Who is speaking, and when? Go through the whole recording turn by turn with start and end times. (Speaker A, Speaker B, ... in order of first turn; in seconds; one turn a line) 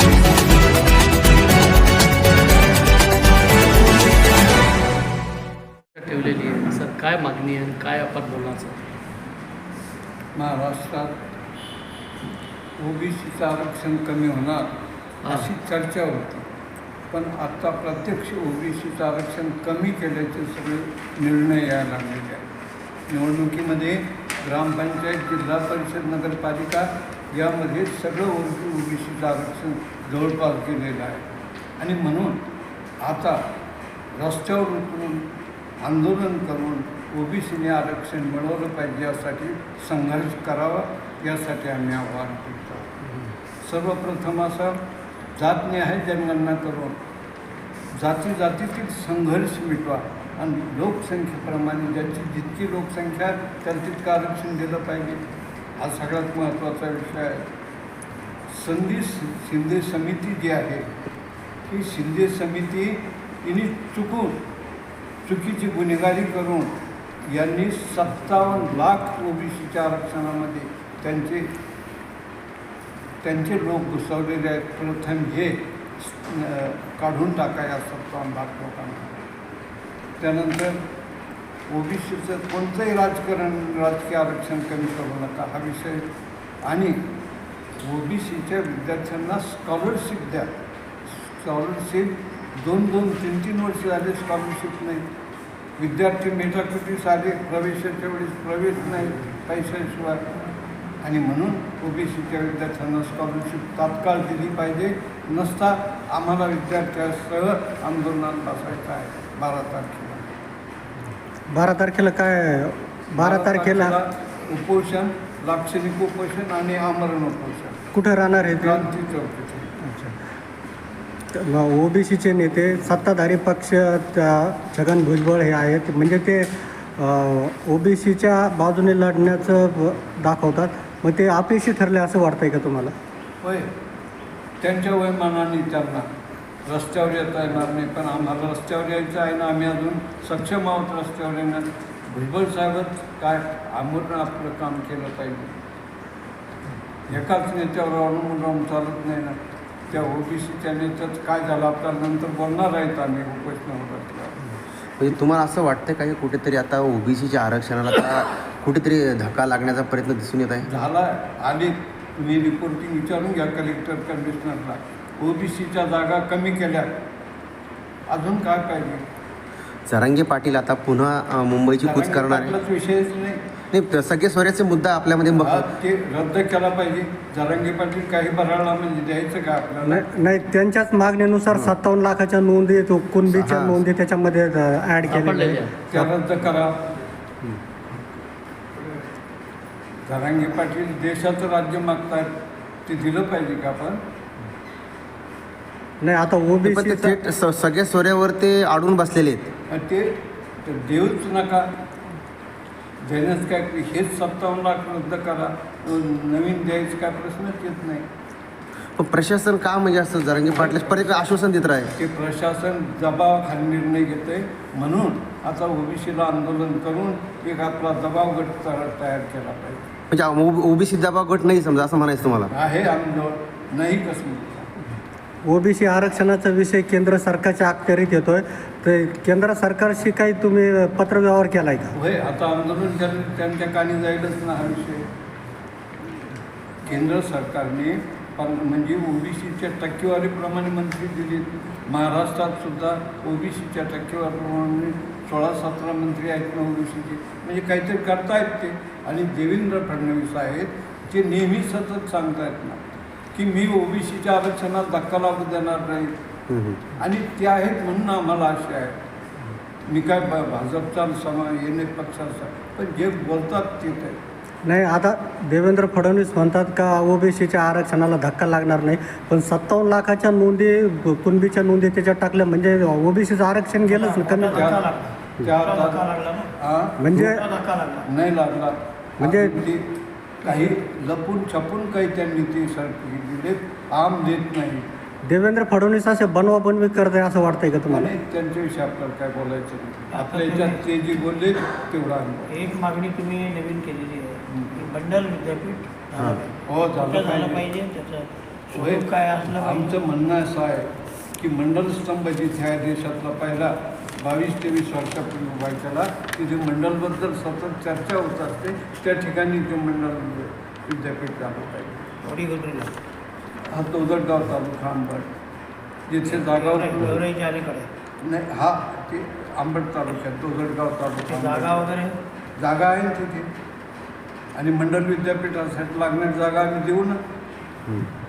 Speaker A: 6.0-8.9
Speaker B: 10.3-11.2
Speaker B: 12.8-14.7
Speaker A: 15.2-15.5
Speaker B: 15.3-16.5
Speaker B: 17.1-22.5
Speaker B: 23.1-31.3
Speaker B: 31.8-32.4
Speaker B: 33.0-33.5
Speaker B: 34.1-35.3
Speaker B: 35.8-42.9
Speaker B: 43.6-44.8
Speaker B: 45.4-47.0
Speaker B: 47.9-55.2
Speaker B: 55.8-57.5
Speaker B: 58.5-60.9
Speaker B: 61.7-64.4
Speaker B: 65.2-66.8
Speaker B: 67.3-71.5
Speaker B: 73.2-79.2
Speaker B: 80.2-80.8
Speaker B: 81.7-86.0
Speaker B: 86.7-87.0
Speaker B: 87.8-90.5
Speaker B: 91.1-95.0
Speaker B: 95.8-100.2
Speaker B: 101.0-110.3
Speaker C: 111.5-114.0
Speaker B: 113.2-117.8
Speaker C: 117.9-118.9
Speaker B: 118.5-119.8
Speaker C: 119.8-120.2
Speaker C: 121.3-132.9
Speaker B: 133.4-133.7
Speaker B: 134.6-136.1
Speaker B: 136.7-145.6
Speaker B: 147.1-154.4
Speaker D: 155.0-160.7
Speaker B: 160.7-167.0
Speaker B: 168.1-169.0
Speaker D: 169.9-172.5
Speaker B: 171.8-173.4
Speaker D: 173.7-175.7
Speaker B: 175.4-180.1
Speaker C: 179.8-186.1
Speaker D: 183.3-183.8
Speaker A: 185.1-185.8
Speaker B: 185.9-186.8
Speaker B: 190.1-192.3
Speaker B: 192.9-194.0
Speaker C: 196.0-197.2
Speaker D: 196.7-199.5
Speaker B: 199.7-201.7
Speaker B: 203.0-208.1
Speaker D: 209.0-211.9
Speaker B: 210.5-211.3
Speaker B: 211.9-219.9
Speaker D: 220.1-222.5
Speaker B: 222.5-224.7
Speaker C: 225.4-231.9
Speaker B: 231.9-235.1
Speaker B: 236.8-252.8
Speaker B: 253.3-256.1
Speaker D: 256.5-256.9
Speaker B: 257.0-259.0
Speaker B: 259.9-264.2
Speaker C: 264.6-274.7
Speaker E: 273.9-276.5
Speaker B: 274.5-274.8
Speaker B: 275.4-276.0
Speaker B: 276.6-277.2
Speaker C: 277.0-277.5
Speaker E: 277.1-278.1
Speaker B: 278.1-279.8
Speaker C: 279.2-279.6
Speaker B: 280.4-284.9
Speaker C: 285.3-288.1
Speaker B: 287.9-292.5
Speaker E: 290.1-290.8
Speaker E: 292.5-300.0
Speaker B: 296.7-297.7
Speaker B: 298.7-312.1
Speaker E: 312.2-312.9
Speaker B: 313.7-315.3
Speaker B: 316.1-317.2
Speaker E: 316.2-317.9
Speaker B: 318.2-321.9
Speaker E: 321.2-322.2
Speaker B: 322.6-323.5
Speaker B: 324.6-327.2